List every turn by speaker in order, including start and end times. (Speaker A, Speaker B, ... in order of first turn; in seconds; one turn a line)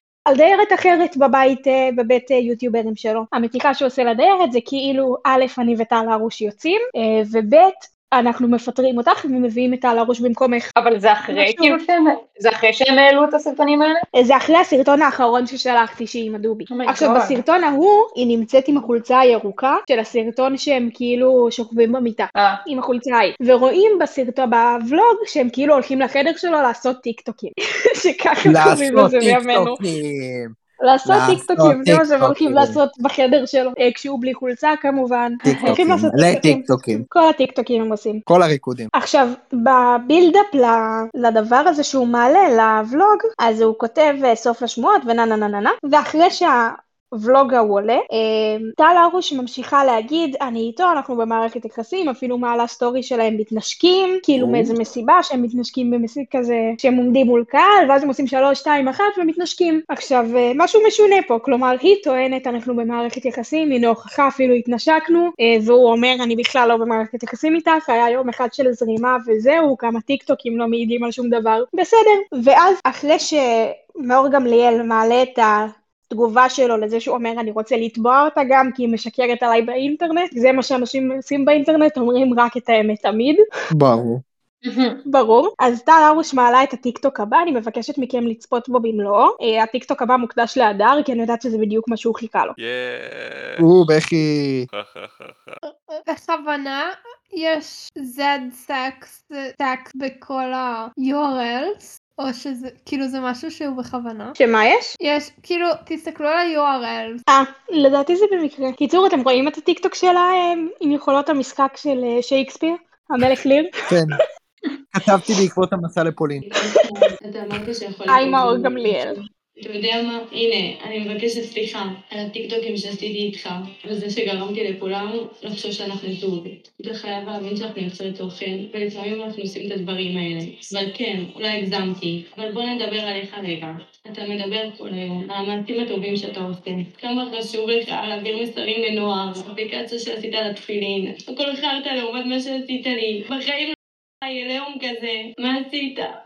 Speaker A: 0.3-10.7
Speaker B: 10.8-14.0
Speaker A: 11.3-11.8
Speaker A: 14.2-29.8
Speaker B: 16.7-17.4
Speaker B: 22.4-22.6
Speaker C: 28.4-32.8
Speaker A: 30.8-38.2
Speaker C: 35.5-37.1
Speaker C: 38.3-38.9
Speaker A: 38.9-83.4
Speaker C: 54.4-54.7
Speaker C: 83.7-84.2
Speaker B: 84.6-85.0
Speaker A: 85.1-92.6
Speaker D: 92.6-93.7
Speaker C: 93.6-94.7
Speaker D: 94.7-95.6
Speaker E: 95.7-104.4
Speaker A: 104.4-104.9
Speaker E: 105.0-107.2
Speaker A: 107.3-113.7
Speaker C: 113.9-114.2
Speaker C: 114.9-116.5
Speaker F: 116.5-146.1
Speaker A: 118.1-119.2